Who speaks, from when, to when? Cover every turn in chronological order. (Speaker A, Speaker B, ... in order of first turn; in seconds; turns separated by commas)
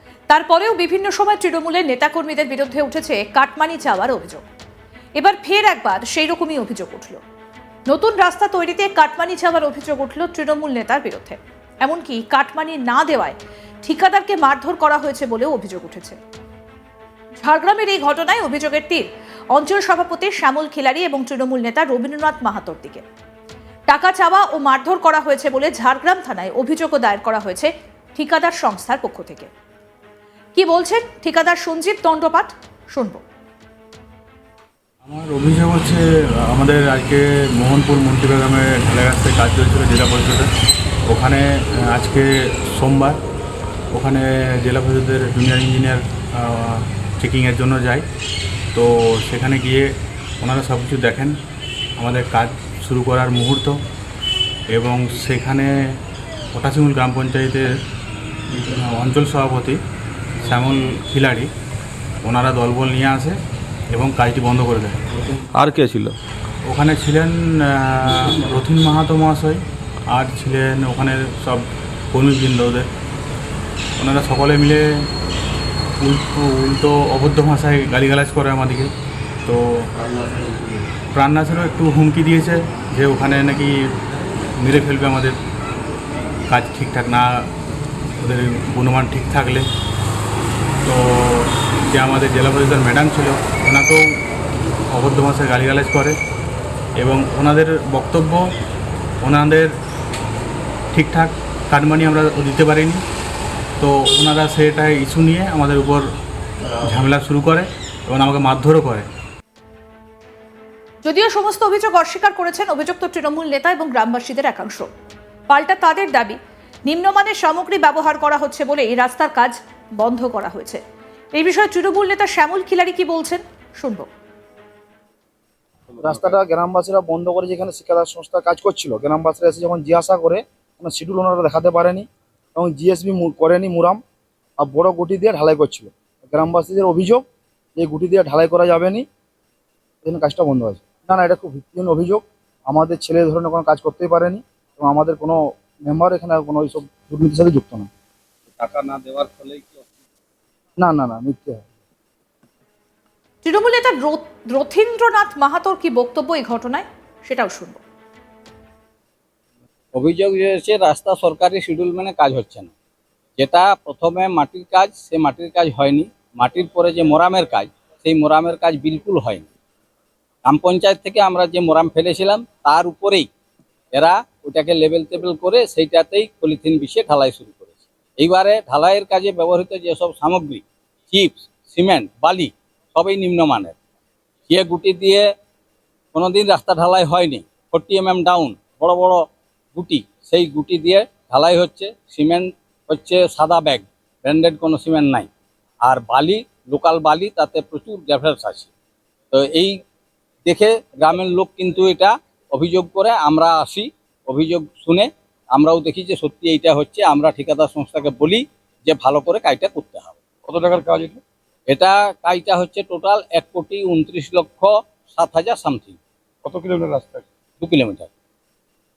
Speaker A: 0.3-4.4, Speaker A: 5.2-7.2, Speaker A: 7.9-16.2, Speaker A: 17.4-23.0, Speaker A: 23.9-29.5, Speaker A: 30.6-33.2, Speaker B: 35.0-40.5, Speaker B: 41.1-43.2, Speaker B: 43.9-48.0, Speaker B: 48.7-49.9, Speaker B: 50.4-51.4, Speaker B: 52.0-53.8, Speaker B: 54.7-55.9, Speaker B: 56.5-57.7, Speaker B: 58.6-59.8, Speaker B: 60.4-61.5, Speaker B: 62.2-63.4, Speaker B: 63.9-65.0, Speaker B: 66.6-69.6, Speaker B: 70.1-72.9, Speaker B: 74.0-74.8, Speaker B: 76.0-78.9, Speaker B: 79.5-79.9, Speaker B: 81.1-83.8, Speaker B: 84.6-85.3, Speaker B: 86.5-87.5, Speaker B: 88.2-89.7, Speaker B: 90.8-94.1, Speaker B: 94.9-96.2, Speaker B: 97.0-98.5, Speaker B: 99.2-99.7, Speaker B: 100.9-103.0, Speaker B: 103.8-106.0, Speaker B: 106.8-109.1, Speaker A: 111.0-114.9, Speaker A: 115.5-120.8, Speaker A: 121.3-124.1, Speaker C: 125.9-126.3, Speaker D: 126.0-134.0, Speaker D: 134.6-137.2, Speaker D: 137.8-139.1, Speaker D: 140.0-147.9, Speaker E: 148.6-149.9, Speaker D: 150.8-151.7, Speaker A: 153.4-157.8, Speaker E: 159.9-162.7, Speaker E: 163.4-169.5, Speaker E: 170.4-173.3, Speaker E: 173.9-183.8, Speaker E: 184.5-185.2, Speaker E: 186.1-189.2, Speaker E: 189.8-195.3, Speaker E: 195.8-198.7, Speaker E: 199.3-199.7, Speaker E: 200.5-210.1, Speaker C: 210.5-211.2, Speaker E: 211.7-216.0, Speaker C: 216.4-217.3, Speaker E: 217.6-218.1